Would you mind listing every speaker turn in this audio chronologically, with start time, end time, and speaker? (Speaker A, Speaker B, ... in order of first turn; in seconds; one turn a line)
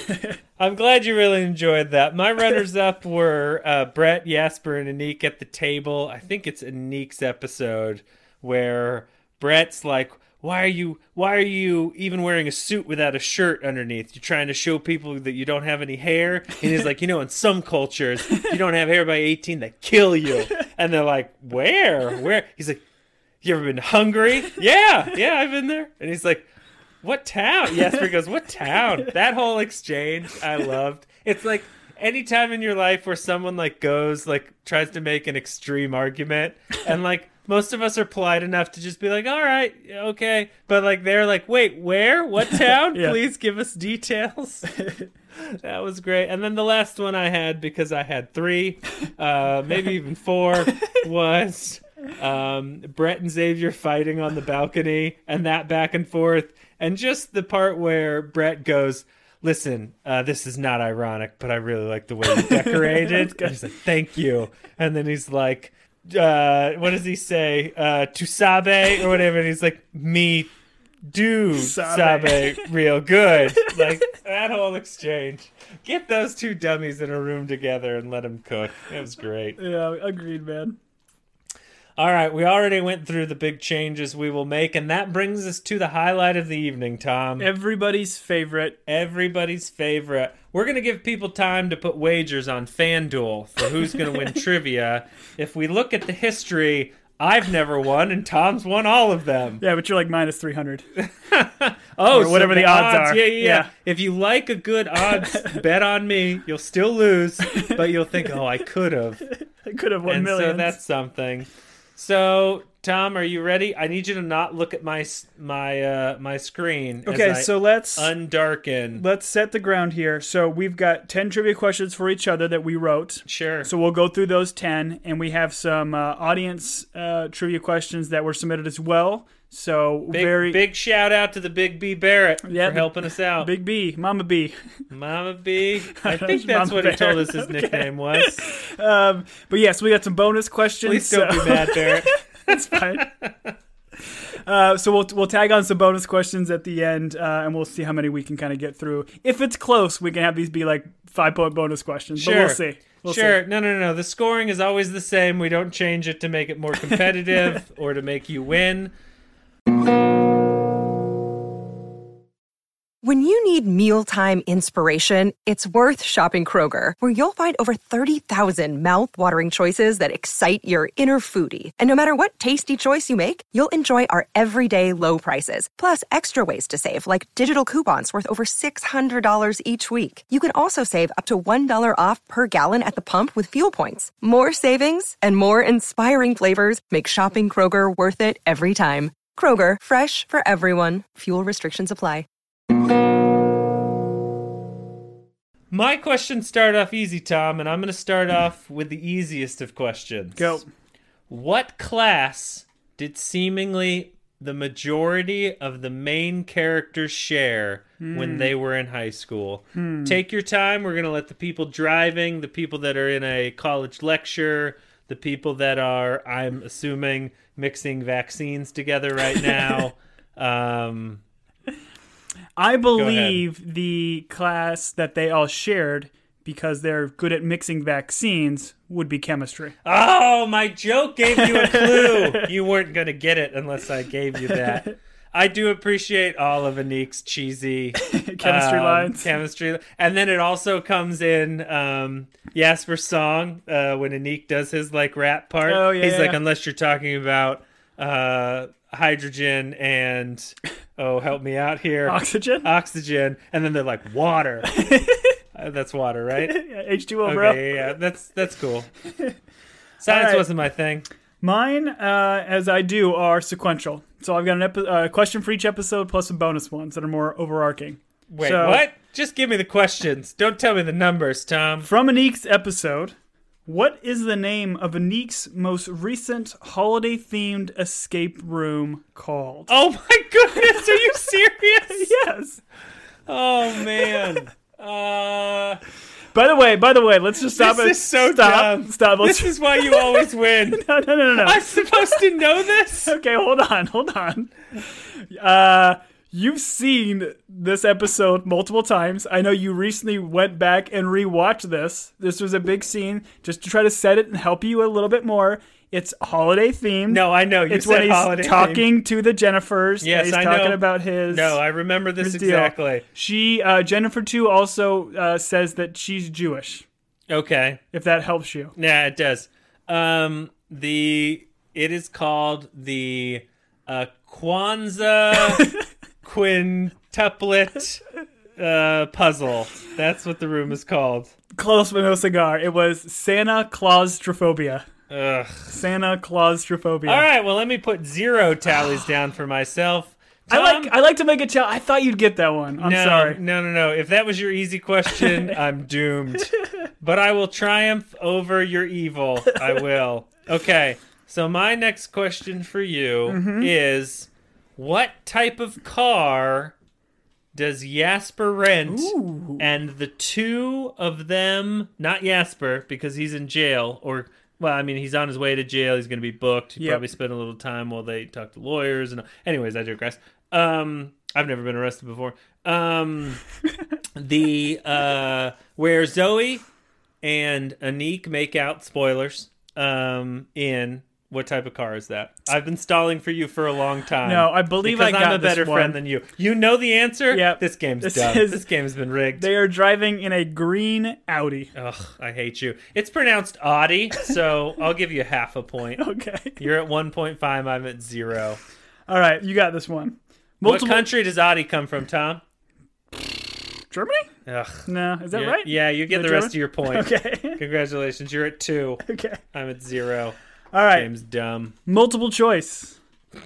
Speaker A: 0.1-0.3
Speaker B: 0.6-22.8
Speaker B: 23.4-26.5
Speaker B: 27.0-44.7
Speaker A: 42.9-43.2
Speaker A: 44.7-45.0
Speaker B: 45.3-70.5
Speaker A: 62.4-63.5
Speaker B: 71.0-79.6
Speaker A: 71.6-72.7
Speaker A: 79.6-80.8
Speaker B: 82.0-87.5
Speaker A: 87.4-88.8
Speaker B: 88.8-99.6
Speaker A: 99.6-100.8
Speaker B: 101.0-109.2
Speaker A: 102.1-103.7
Speaker A: 105.2-105.6
Speaker A: 109.3-110.8
Speaker B: 110.0-119.0
Speaker A: 117.0-118.1
Speaker A: 119.0-130.6
Speaker B: 123.2-123.7
Speaker B: 130.1-133.5
Speaker A: 132.4-134.8
Speaker B: 134.9-138.4
Speaker A: 135.9-143.1
Speaker B: 140.8-143.5
Speaker A: 144.4-153.4
Speaker B: 152.2-158.9
Speaker C: 163.0-192.2
Speaker B: 195.7-200.6
Speaker A: 200.3-200.7
Speaker B: 201.3-221.2
Speaker A: 208.0-208.5
Speaker A: 209.7-210.2
Speaker A: 222.6-229.7
Speaker B: 222.9-223.4
Speaker B: 229.8-254.7
Speaker A: 231.5-232.4
Speaker A: 238.0-239.3
Speaker A: 245.7-246.4
Speaker A: 252.0-252.7
Speaker A: 254.6-255.3
Speaker B: 255.5-256.6
Speaker A: 256.4-257.8
Speaker B: 257.2-258.9
Speaker B: 260.0-261.0
Speaker A: 260.1-260.4
Speaker A: 261.4-268.8
Speaker B: 268.3-271.9
Speaker A: 271.8-273.1
Speaker A: 273.6-279.7
Speaker B: 279.7-282.1
Speaker A: 281.9-282.6
Speaker B: 283.3-285.8
Speaker A: 286.3-292.0
Speaker B: 287.6-293.1
Speaker A: 293.0-311.6
Speaker B: 307.1-308.9
Speaker B: 310.0-313.0
Speaker A: 312.2-316.9
Speaker B: 317.3-317.8
Speaker A: 317.9-318.7
Speaker B: 318.8-328.0
Speaker B: 328.6-331.3
Speaker A: 331.6-334.9
Speaker B: 335.1-335.8
Speaker A: 335.6-337.2
Speaker B: 337.1-340.9
Speaker A: 340.5-343.4
Speaker B: 342.8-356.7
Speaker A: 353.3-353.7
Speaker B: 357.5-373.4
Speaker A: 358.9-359.6
Speaker B: 374.1-376.6
Speaker B: 377.2-389.5
Speaker A: 384.2-386.0
Speaker A: 387.3-388.6
Speaker A: 389.4-391.7
Speaker B: 391.7-396.0
Speaker A: 396.0-396.6
Speaker B: 396.6-398.6
Speaker A: 399.1-401.1
Speaker B: 400.6-402.4
Speaker A: 403.1-404.3
Speaker B: 404.4-410.4
Speaker A: 404.8-407.6
Speaker A: 409.0-409.4
Speaker A: 410.7-411.1
Speaker B: 410.9-411.7
Speaker A: 411.9-413.0